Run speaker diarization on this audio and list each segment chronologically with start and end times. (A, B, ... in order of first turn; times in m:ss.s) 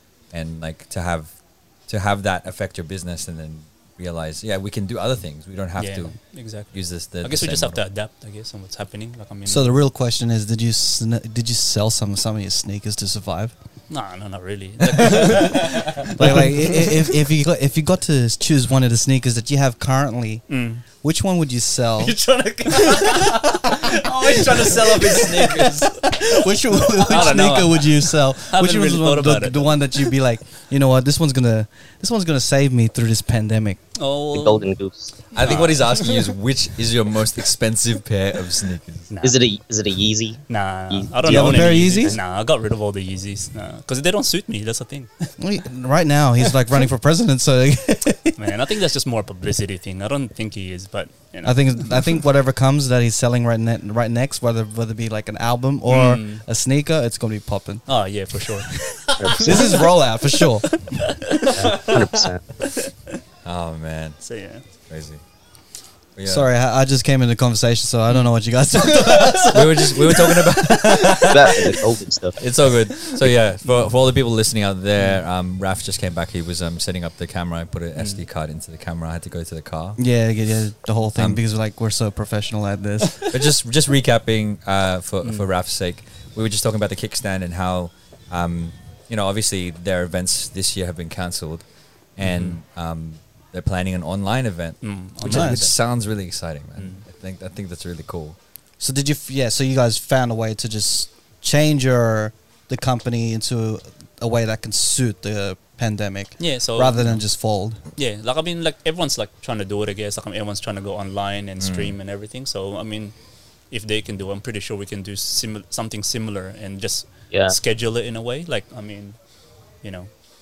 0:00.3-0:01.3 A
0:01.9-0:07.8 A
0:05.8-0:09.8 B
0:09.5-0:13.5 C
0:13.9-0:16.9 B
0:15.0-0:15.9 A
0:16.2-0:22.2 C
0:20.5-0:20.8 B
0:22.0-0:26.4 A
0:22.7-0:33.8 C
0:27.1-0:29.7 B
0:34.0-0:34.7 B
0:34.3-0:35.1 D
0:35.3-0:39.1 A
0:35.4-0:36.1 B
0:39.1-0:39.4 B
0:39.2-0:42.2 D
0:40.5-0:45.3 B
0:41.2-0:42.2 C
0:45.4-0:48.4 C
0:48.4-0:52.0 B
0:51.4-0:57.8 C
0:55.9-0:56.4 B
0:57.9-0:58.7 B
0:59.2-0:59.6 D
0:59.3-1:00.7 C
0:59.4-0:59.8 B
1:00.7-1:01.6 B
1:01.5-1:02.1 A
1:01.6-1:02.4 D
1:02.6-1:02.9 B
1:03.4-1:04.2 A
1:04.2-1:04.6 B
1:04.9-1:05.2 A
1:06.2-1:06.5 A
1:06.3-1:11.1 C
1:09.4-1:11.6 A
1:11.3-1:12.4 D
1:12.4-1:20.0 A
1:18.0-1:18.2 B
1:20.0-1:23.3 C
1:23.3-1:31.6 A
1:25.2-1:25.5 B
1:32.2-1:38.4 A
1:32.2-1:32.6 B
1:34.8-1:35.8 B
1:35.2-1:35.6 C
1:36.8-1:37.0 B
1:38.8-1:47.8 C
1:46.4-1:47.2 B
1:48.0-1:53.2 B
1:51.6-1:51.9 A
1:53.7-1:59.2 B
1:59.8-2:00.1 B